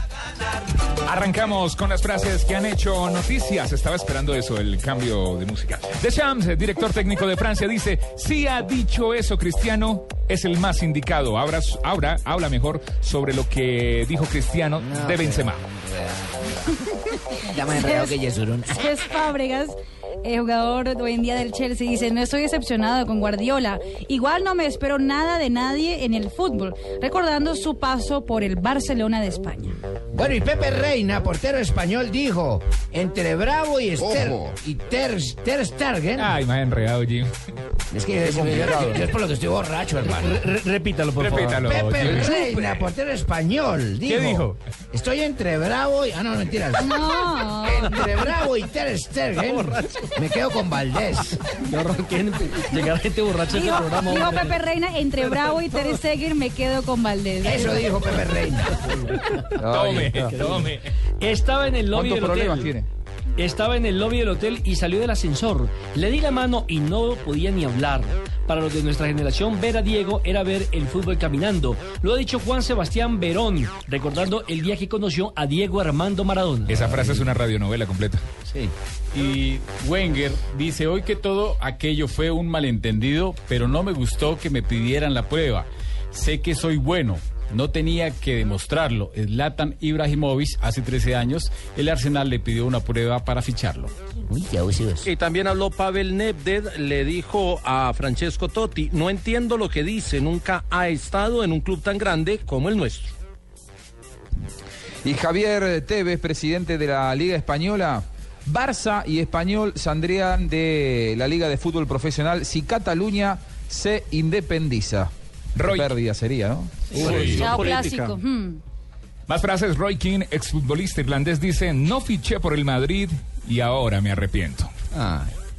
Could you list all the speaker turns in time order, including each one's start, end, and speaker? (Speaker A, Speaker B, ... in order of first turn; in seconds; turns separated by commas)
Speaker A: 1.0-15.6, Speaker B: 14.8-16.8, Speaker B: 17.4-18.8, Speaker C: 17.7-18.2, Speaker C: 18.7-29.8, Speaker B: 30.1-36.4, Speaker A: 36.1-37.3, Speaker B: 37.9-40.4, Speaker D: 38.3-39.0, Speaker D: 40.1-41.5, Speaker A: 41.2-42.4, Speaker B: 41.4-46.9, Speaker C: 46.8-48.0, Speaker B: 47.6-51.4, Speaker E: 49.4-50.1, Speaker D: 51.6-54.6, Speaker C: 53.5-57.9, Speaker B: 57.4-58.8, Speaker F: 59.5-60.3, Speaker A: 59.6-60.9, Speaker D: 60.2-62.7, Speaker F: 61.9-62.8, Speaker A: 62.1-62.6, Speaker D: 63.4-77.0, Speaker A: 76.7-78.2, Speaker G: 79.1-93.9, Speaker B: 94.3-95.1, Speaker E: 95.0-103.1, Speaker F: 105.0-117.4, Speaker A: 115.5-115.9, Speaker E: 116.9-118.2, Speaker C: 117.0-118.6, Speaker A: 117.1-117.3, Speaker A: 119.3-124.7, Speaker E: 125.0-125.3